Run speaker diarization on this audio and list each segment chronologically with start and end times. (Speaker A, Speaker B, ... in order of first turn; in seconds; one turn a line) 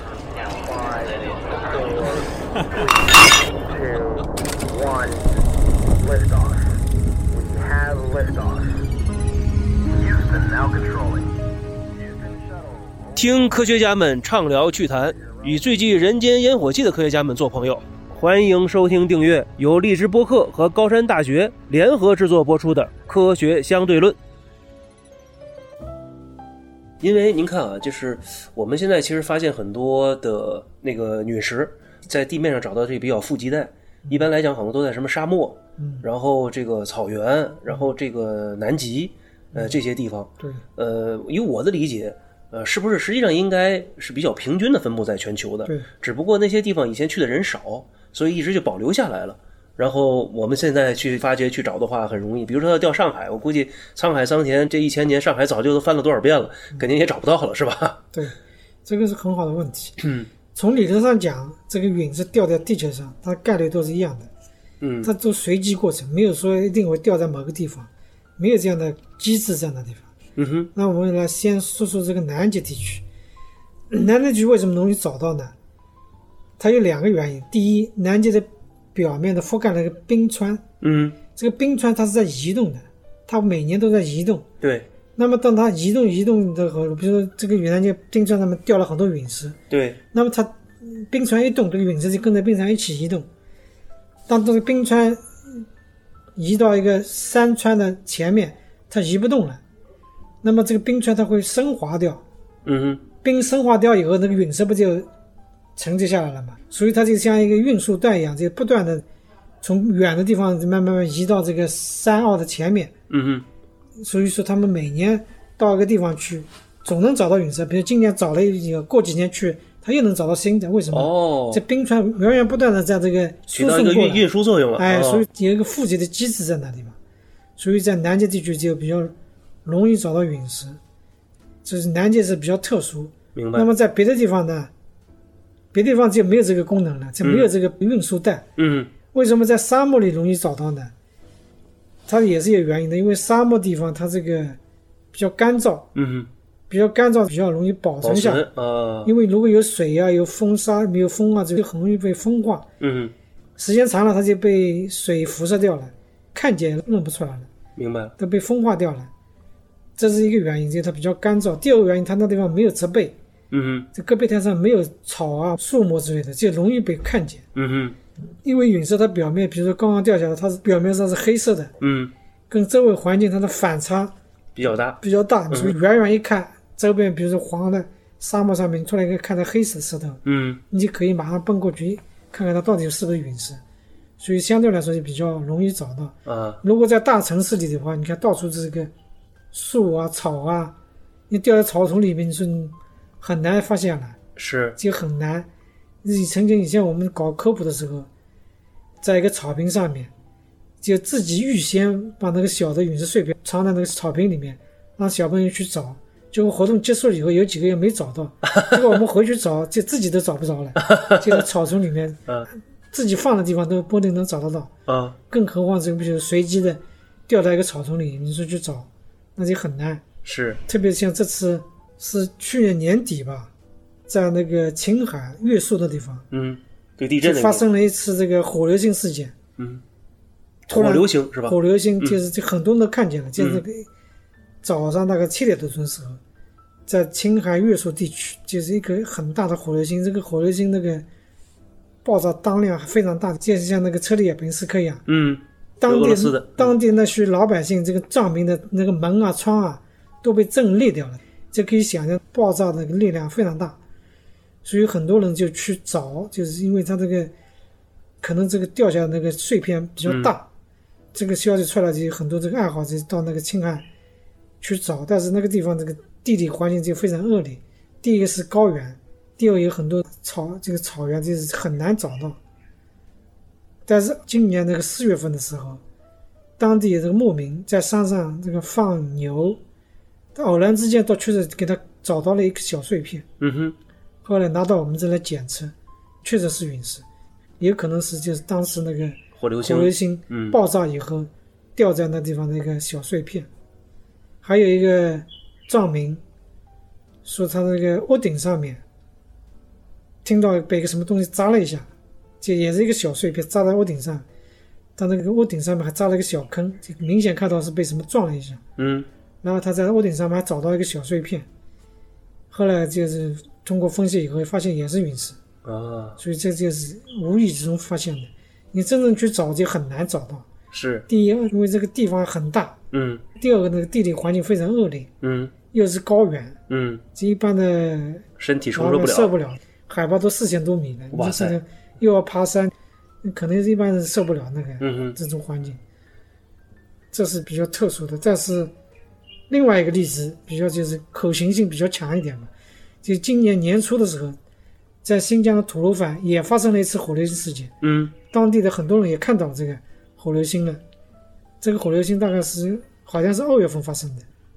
Speaker A: 0.4-5.3
Speaker A: 6.0-6.8
Speaker A: 7.3-8.8
Speaker A: 9.9-11.3
Speaker A: 12.0-13.6
Speaker B: 13.1-24.2
Speaker A: 15.2-15.7
Speaker B: 27.0-58.0
Speaker C: 35.8-36.0
Speaker C: 39.5-39.8
Speaker C: 58.9-60.0
Speaker B: 60.0-60.3
Speaker C: 60.5-64.3
Speaker B: 64.8-65.1
Speaker C: 65.0-70.1
Speaker B: 70.4-70.7
Speaker C: 70.7-73.0
Speaker C: 73.9-75.5
Speaker C: 76.6-80.6
Speaker B: 80.8-81.2
Speaker C: 81.3-84.5
Speaker B: 84.6-84.9
Speaker C: 85.2-89.6
Speaker B: 89.7-90.0
Speaker C: 90.1-93.3
Speaker C: 94.3-95.6
Speaker C: 96.3-99.6
Speaker C: 100.4-102.2
Speaker B: 102.6-103.0
Speaker C: 103.2-105.1
Speaker C: 105.8-109.0
Speaker C: 109.6-112.9
Speaker B: 113.1-113.4
Speaker C: 114.0-124.2
Speaker B: 120.9-121.6
Speaker B: 123.5-125.2
Speaker C: 124.8-127.0
Speaker C: 127.6-129.1
Speaker C: 129.6-130.8
Speaker C: 131.6-134.7
Speaker B: 133.3-133.7
Speaker C: 135.7-138.5
Speaker B: 137.2-137.5
Speaker B: 138.6-138.9
Speaker C: 139.1-140.9
Speaker C: 142.1-144.6
Speaker C: 145.1-145.9
Speaker B: 145.9-146.3
Speaker C: 146.7-148.5
Speaker B: 148.0-149.1
Speaker C: 149.0-152.7
Speaker B: 152.8-153.1
Speaker C: 153.6-157.5
Speaker B: 157.8-158.1
Speaker C: 158.2-159.1
Speaker C: 160.0-163.2
Speaker B: 163.5-163.9
Speaker C: 163.9-167.4
Speaker B: 167.6-167.9
Speaker C: 168.4-171.7
Speaker B: 171.8-172.1
Speaker C: 172.5-174.1
Speaker B: 174.6-175.0
Speaker C: 175.0-183.6
Speaker B: 180.2-180.6
Speaker C: 184.2-188.9
Speaker B: 186.2-186.6
Speaker C: 189.5-190.7
Speaker C: 191.3-194.2
Speaker B: 194.3-194.8
Speaker C: 194.8-195.5
Speaker C: 196.0-198.1
Speaker C: 199.0-200.1
Speaker C: 200.8-212.2
Speaker B: 210.9-211.4
Speaker C: 212.9-214.7
Speaker B: 214.9-215.2
Speaker C: 215.3-220.0
Speaker B: 220.2-220.6
Speaker C: 220.7-223.5
Speaker C: 224.1-226.2
Speaker B: 226.3-227.7
Speaker C: 227.2-229.3
Speaker B: 229.6-229.8
Speaker C: 230.7-233.9
Speaker B: 230.7-232.2
Speaker B: 233.4-233.6
Speaker C: 234.6-236.2
Speaker C: 236.9-241.0
Speaker C: 242.0-245.0
Speaker B: 245.1-246.7
Speaker C: 245.8-253.8
Speaker C: 254.6-257.3
Speaker C: 258.2-260.5
Speaker C: 261.1-263.9
Speaker C: 264.6-272.4
Speaker C: 273.9-275.8
Speaker C: 276.6-279.6
Speaker C: 280.4-283.2
Speaker B: 283.4-283.8
Speaker C: 284.2-287.0
Speaker C: 287.6-293.5
Speaker B: 289.4-290.6
Speaker C: 294.4-296.2
Speaker C: 297.2-298.8
Speaker C: 300.2-301.9
Speaker C: 302.4-304.2
Speaker C: 305.0-308.6
Speaker B: 308.8-309.1
Speaker C: 309.4-311.5
Speaker C: 312.5-315.4
Speaker B: 315.6-316.2
Speaker C: 316.2-320.5
Speaker B: 320.7-321.1
Speaker C: 321.1-322.8
Speaker B: 322.9-323.2
Speaker C: 323.4-325.1
Speaker B: 325.2-325.5
Speaker C: 325.7-326.6
Speaker B: 326.7-327.0
Speaker C: 327.1-332.7
Speaker B: 328.4-329.3
Speaker B: 331.1-331.6
Speaker C: 333.2-335.8
Speaker B: 334.8-335.2
Speaker C: 337.1-338.7
Speaker C: 339.5-342.5
Speaker C: 343.0-344.4
Speaker C: 345.0-350.8
Speaker B: 347.8-348.1
Speaker C: 351.6-354.2